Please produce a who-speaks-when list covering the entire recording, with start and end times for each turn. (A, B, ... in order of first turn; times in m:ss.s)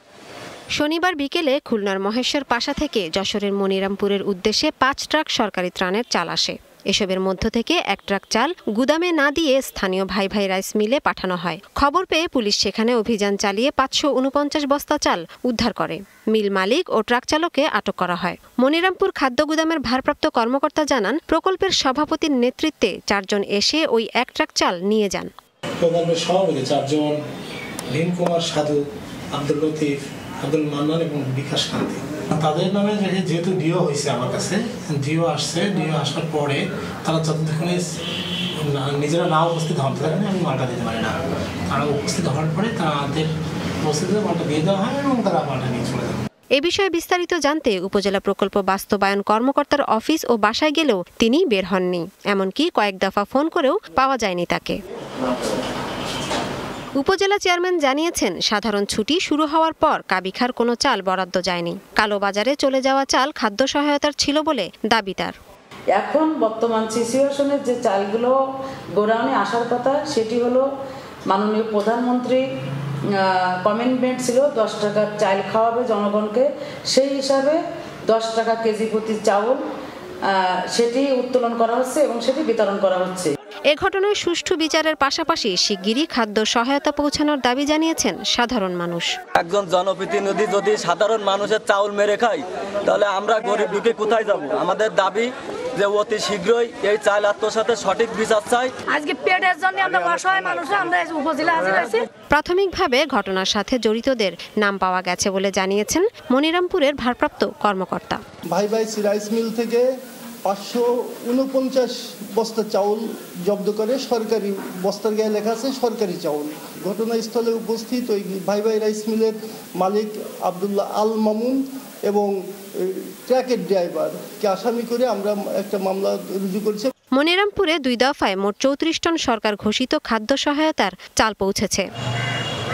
0:00.7-0:25.3 A
0:25.8-0:27.2 B
0:27.9-0:28.8 B
0:29.3-0:37.9 B
0:38.6-0:41.2 B
0:41.7-0:43.3 B
0:43.8-0:46.2 B
0:46.6-0:54.8 A
0:57.0-1:05.4 A
1:05.9-1:08.4 C
1:08.9-1:10.7 C
1:11.3-1:12.5 C
1:13.1-1:19.6 C
1:20.2-1:23.3 C
1:23.7-1:29.1 A
1:29.4-1:38.7 D
1:38.8-1:42.1 E
1:42.3-1:48.2 A
1:48.5-1:49.8 F
1:50.4-2:02.3 F
2:02.8-2:06.9 F
2:07.2-2:11.9 A